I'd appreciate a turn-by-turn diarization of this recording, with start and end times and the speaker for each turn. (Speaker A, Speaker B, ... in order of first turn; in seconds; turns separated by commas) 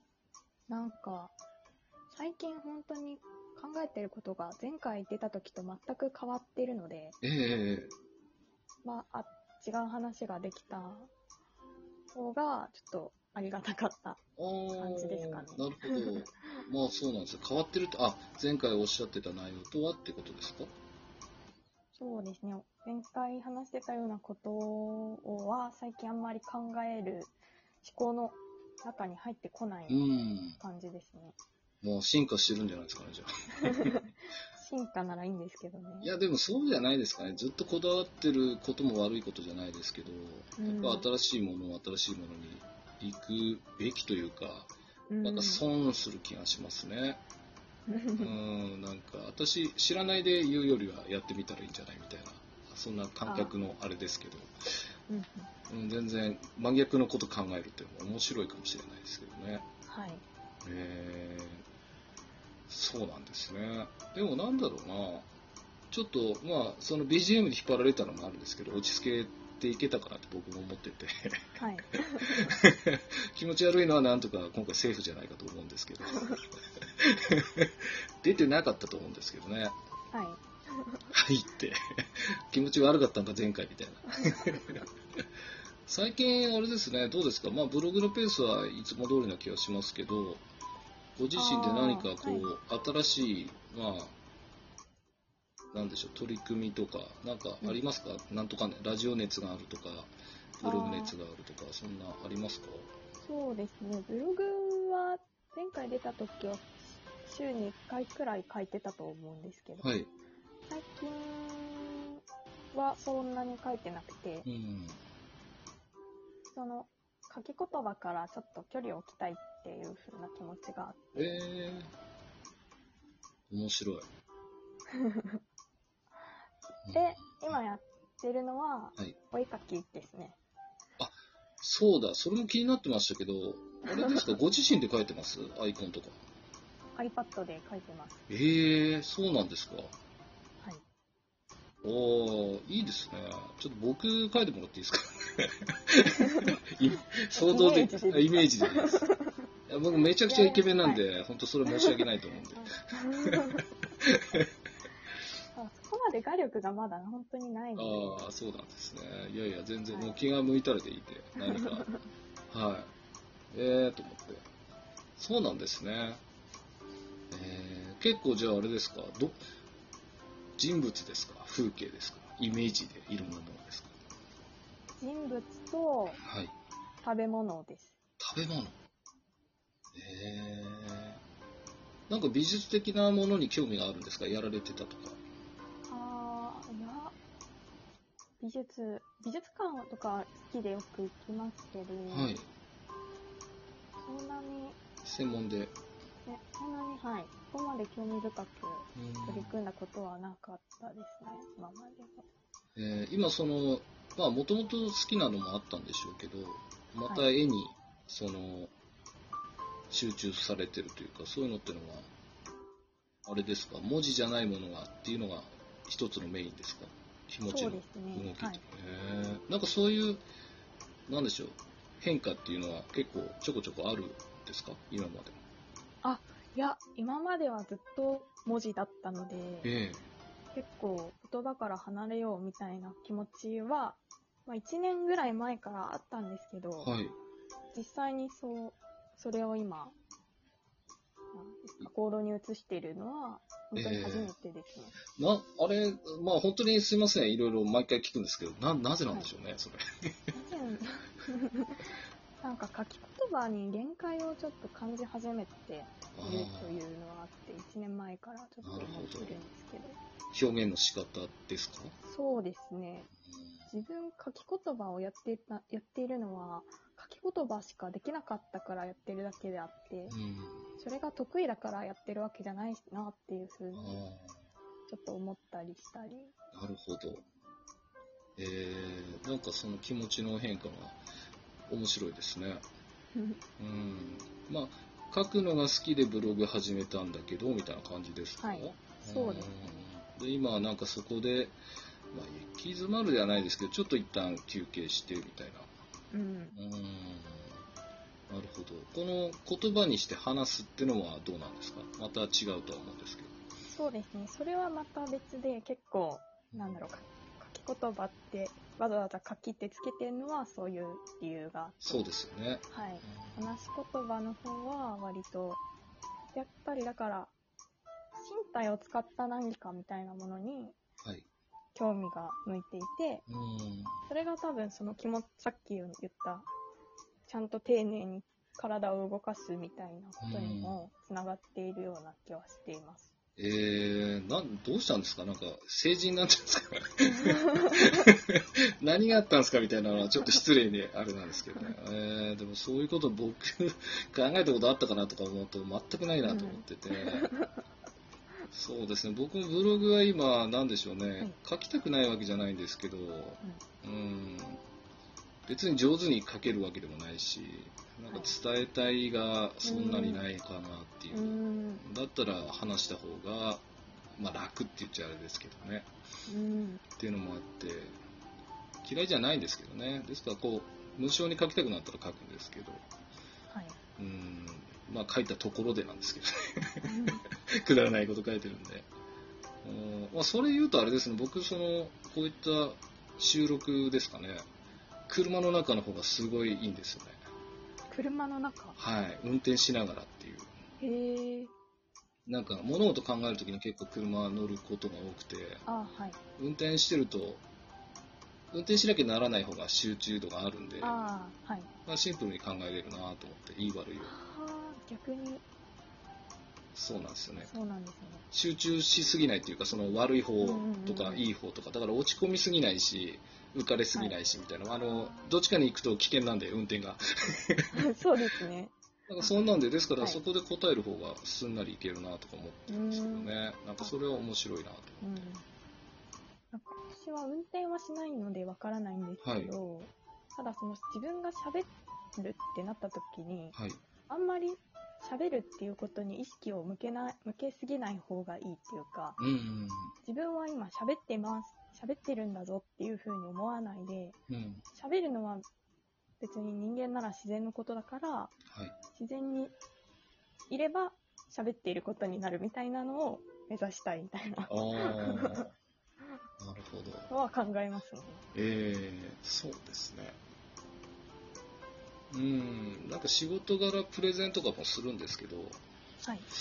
Speaker A: 0.7-1.4, Speaker A: 2.1-7.2, Speaker B: 7.2-7.9, Speaker A: 8.8-11.1, Speaker A: 12.1-14.2, Speaker B: 14.4-20.7, Speaker A: 14.8-16.6, Speaker A: 21.9-30.1, Speaker B: 29.9-30.6, Speaker A: 30.6-31.4, Speaker B: 31.8-34.0, Speaker A: 33.6-34.0, Speaker A: 34.5-36.1, Speaker B: 36.0-47.2, Speaker A: 40.6-41.1, Speaker A: 45.1-45.6, Speaker A: 47.9-48.4, Speaker B: 48.2-54.5, Speaker A: 53.2-53.5, Speaker A: 55.1-55.5, Speaker B: 55.7-59.7, Speaker A: 59.9-60.2, Speaker B: 60.6-61.6, Speaker B: 62.7-65.3, Speaker B: 65.9-71.6, Speaker A: 71.6-72.5, Speaker B: 72.3-79.8, Speaker A: 80.1-81.1, Speaker B: 81.1-85.2, Speaker B: 85.9-90.5, Speaker B: 91.2-94.2, Speaker A: 91.3-92.5, Speaker B: 95.7-102.9, Speaker A: 100.6-101.2, Speaker A: 103.2-110.0, Speaker B: 109.8-110.1, Speaker A: 110.7-112.2, Speaker A: 112.7-114.5, Speaker B: 114.4-115.0, Speaker A: 116.5-121.4, Speaker B: 121.2-121.9, Speaker B: 123.5-124.1, Speaker A: 124.9-125.4, Speaker B: 126.8-127.6, Speaker A: 126.9-130.4, Speaker B: 131.0-136.2, Speaker A: 137.0-138.2, Speaker B: 138.3-139.9, Speaker B: 141.8-149.1, Speaker A: 146.2-146.5, Speaker A: 147.3-149.4, Speaker B: 149.7-154.5, Speaker A: 150.3-151.0, Speaker A: 152.5-153.6, Speaker A: 155.5-158.2, Speaker B: 157.8-161.9, Speaker A: 161.4-162.1, Speaker B: 162.5-162.9, Speaker B: 163.5-164.4, Speaker B: 165.2-166.2, Speaker B: 167.3-169.4, Speaker B: 170.6-173.9, Speaker A: 175.0-176.2, Speaker B: 176.2-176.6, Speaker A: 177.0-177.9, Speaker B: 178.2-178.8, Speaker B: 179.9-181.2, Speaker B: 182.1-185.2, Speaker A: 185.9-187.2, Speaker A: 188.4-192.3, Speaker B: 192.1-192.5, Speaker A: 194.0-194.8, Speaker B: 195.0-195.8, Speaker A: 196.2-202.3, Speaker B: 198.9-199.6, Speaker B: 202.8-208.7, Speaker B: 209.9-212.1, Speaker B: 213.2-220.2, Speaker A: 217.5-218.6, Speaker B: 221.1-225.4, Speaker A: 226.0-229.7, Speaker B: 229.6-230.1, Speaker A: 230.5-236.9, Speaker B: 236.8-237.2, Speaker A: 237.7-240.0, Speaker A: 241.3-245.0, Speaker B: 243.8-244.3, Speaker B: 245.1-250.3, Speaker A: 250.3-251.9, Speaker A: 252.4-260.0, Speaker B: 256.1-256.8, Speaker B: 258.6-259.4, Speaker B: 260.3-261.9, Speaker A: 262.0-263.1, Speaker B: 263.3-263.7, Speaker A: 263.7-270.2, Speaker B: 270.1-270.7, Speaker A: 270.8-274.0, Speaker B: 273.7-274.4, Speaker A: 274.9-276.3, Speaker B: 276.5-277.2, Speaker B: 278.4-281.0, Speaker B: 281.7-282.6, Speaker A: 283.1-283.4, Speaker B: 283.6-291.6, Speaker A: 288.4-289.8, Speaker B: 292.1-295.7, Speaker A: 296.1-296.6, Speaker B: 296.5-297.6, Speaker B: 298.3-303.3, Speaker A: 303.7-312.1, Speaker B: 306.5-306.9, Speaker B: 311.8-313.6, Speaker A: 312.7-315.6, Speaker A: 316.3-317.3, Speaker A: 318.1-320.8, Speaker A: 321.8-323.2, Speaker B: 323.3-324.0, Speaker A: 324.1-326.5, Speaker A: 327.3-333.1, Speaker B: 330.2-330.8, Speaker B: 333.4-347.3, Speaker A: 337.1-338.0, Speaker A: 346.2-347.6, Speaker B: 348.5-354.6, Speaker B: 355.5-365.9, Speaker A: 358.1-358.3, Speaker A: 359.6-360.2, Speaker A: 361.1-361.8, Speaker A: 366.3-366.8, Speaker B: 367.0-368.0, Speaker B: 368.8-372.8, Speaker A: 373.5-373.8, Speaker B: 374.0-376.9, Speaker A: 376.8-377.2, Speaker B: 377.6-378.9, Speaker B: 379.6-384.5, Speaker B: 385.1-387.2, Speaker A: 387.9-388.8, Speaker B: 388.8-390.6, Speaker A: 390.8-391.5, Speaker B: 392.3-395.6, Speaker A: 395.7-396.2, Speaker B: 396.4-397.4, Speaker B: 398.5-401.0, Speaker A: 400.8-401.7, Speaker B: 401.9-404.1, Speaker A: 404.0-405.4, Speaker B: 406.8-407.6, Speaker A: 407.4-408.2, Speaker B: 408.3-417.7, Speaker A: 410.4-411.3, Speaker A: 414.7-415.3, Speaker A: 417.7-420.2, Speaker B: 419.1-425.3, Speaker A: 422.7-423.9, Speaker A: 425.0-425.4, Speaker A: 426.5-433.6, Speaker B: 429.2-429.5, Speaker B: 433.5-433.8, Speaker A: 434.1-439.2, Speaker B: 439.2-439.9, Speaker A: 440.0-444.2, Speaker B: 444.3-444.6, Speaker A: 444.7-445.4, Speaker A: 446.2-448.4, Speaker B: 448.5-448.8, Speaker A: 448.9-449.6, Speaker A: 450.5-455.5, Speaker B: 454.5-455.5, Speaker B: 456.4-457.1, Speaker A: 457.1-458.2, Speaker B: 458.3-460.2, Speaker B: 462.1-465.6